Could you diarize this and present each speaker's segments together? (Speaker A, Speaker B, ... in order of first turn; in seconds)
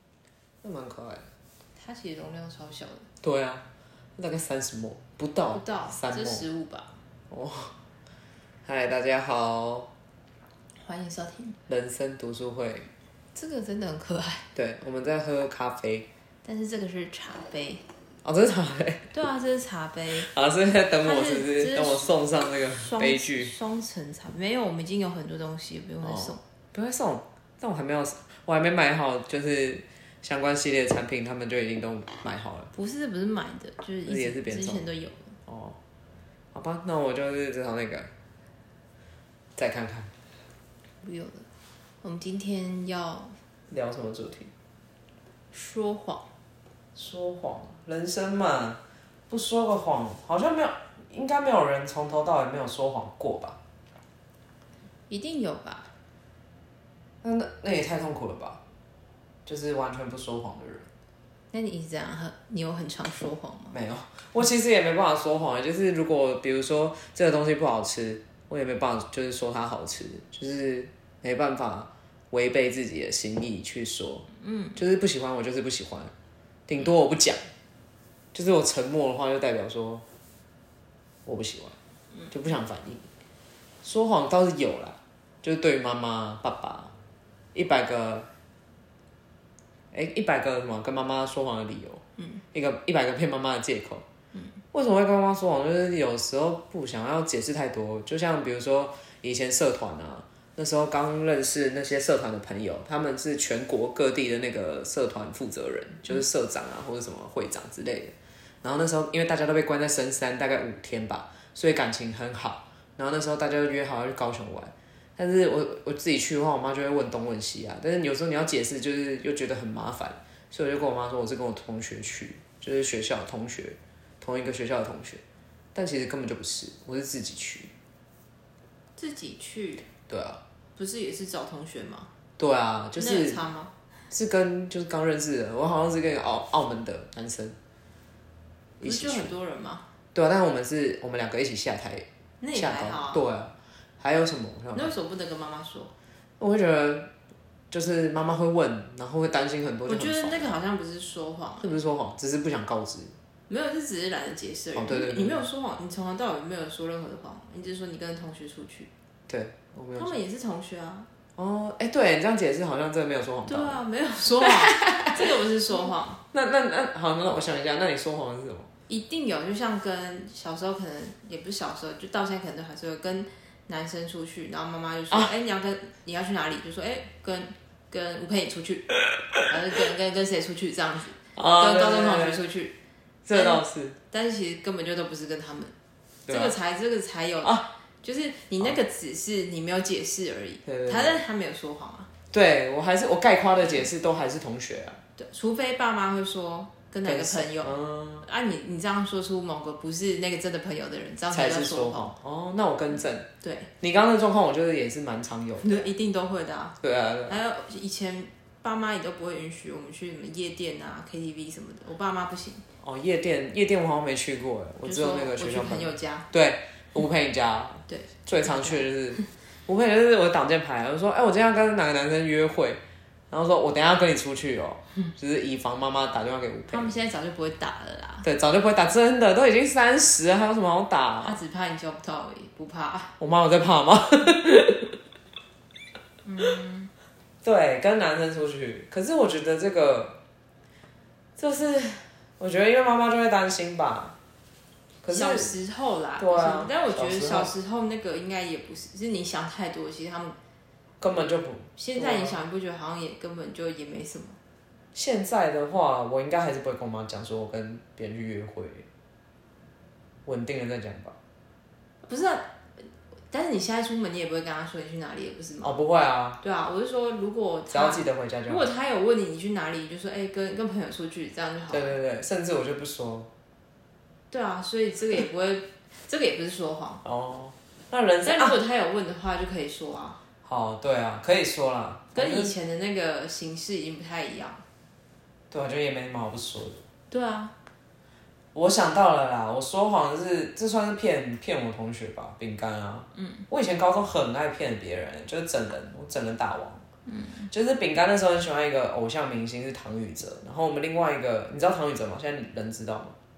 Speaker A: 0.6-1.3, 3.2-3.6, 4.2-6.4, 7.3-7.7, 8.6-9.9, 11.7-12.9, 14.5-16.1, 18.2-19.1, 20.2-23.5, 26.0-32.7, 34.0-34.9, 35.5-35.8, 36.5-38.1, 39.5-40.1, 43.7-44.5, 46.9-53.6, 57.2-58.6, 59.5-60.9, 63.7-76.1, 76.7-77.4, 78.3-80.0, 81.2-81.7, 82.3-83.1, 83.8-86.9, 87.5-88.3, 89.9-92.0, 92.5-94.0, 94.7-125.2, 125.7-127.7, 130.1-130.4, 132.4-133.4, 134.1-137.6, 138.8-139.3, 140.1-144.9, 146.4-147.1, 147.7-150.5, 151.6-153.1, 154.8-155.4, 159.3-160.2, 161.4-163.8, 164.4-165.2, 166.3-168.7, 181.3-182.4, 183.2-184.0, 186.3-186.5, 187.4-187.7, 190.7-191.2, 192.3-195.0, 197.0-198.2, 201.3-203.3, 203.8-205.8, 206.8-207.4, 212.8-226.9, 228.2-231.4, 233.2-235.0, 237.4-240.2, 241.4-244.1, 245.0-245.5, 246.2-247.5, 251.0-252.4, 254.9-258.9, 260.2-261.1, 265.6-266.4, 267.7-268.7, 271.7-273.3, 277.0-278.6, 280.4-282.5, 285.5-286.8, 288.5-296.8, 297.5-303.1
Speaker B: 1.8-3.1, 5.5-6.9, 10.8-11.6, 13.3-14.5, 16.4-17.8, 19.1-20.3, 21.0-22.1, 22.7-26.4, 32.7-35.4, 41.0-41.5, 42.0-43.4, 45.5-46.3, 55.1-55.9, 61.5-63.8, 74.4-74.8, 129.0-129.9, 130.8-132.1, 133.0-133.7, 138.8-139.8, 142.4-143.2, 144.7-145.9, 149.9-151.7, 153.5-158.9, 159.9-161.1, 163.4-166.2, 168.9-178.9, 179.5-182.8, 183.3-185.7, 186.3-192.1, 195.2-202.1, 203.4-203.7, 205.6-206.8, 207.3-212.6, 214.8-216.3, 217.9-218.9, 226.7-228.3, 231.2-233.1, 236.2-236.9, 245.1-250.4, 251.8-254.4, 262.0-265.8, 266.4-272.0, 274.3-277.0, 278.2-280.2, 282.1-284.6, 287.1-287.5, 293.1-293.4, 297.1-297.5